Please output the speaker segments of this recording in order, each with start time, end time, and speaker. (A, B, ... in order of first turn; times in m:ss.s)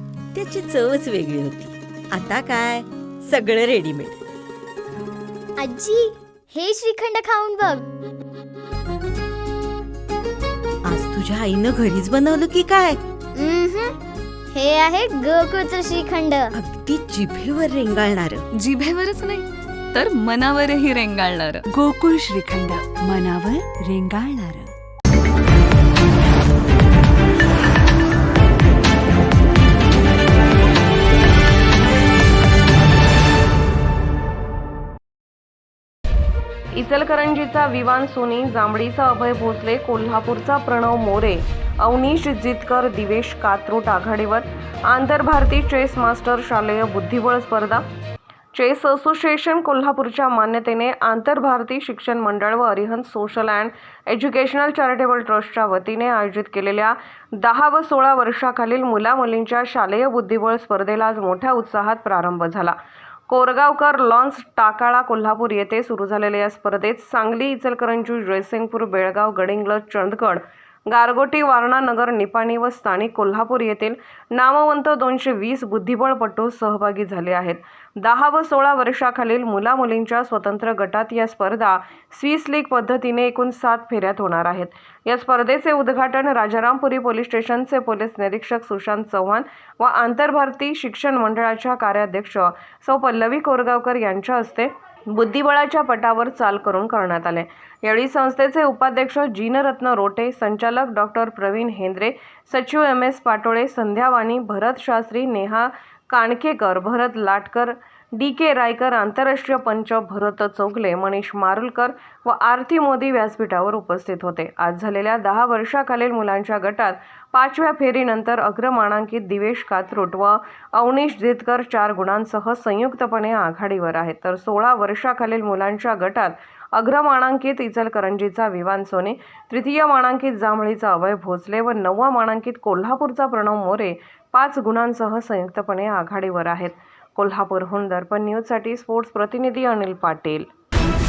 0:00.3-0:04.2 A
0:05.6-0:07.9 B
0:10.8-0:13.0 A
0:13.4-0:14.0 B
0:14.5-0:16.5 B
0:16.5-0:18.4 A
0:18.6-0:21.6 C
0:21.7-0:24.7 D
0:36.7-0:47.8 E
0:48.5-1:02.8 E
1:03.3-2:20.5 E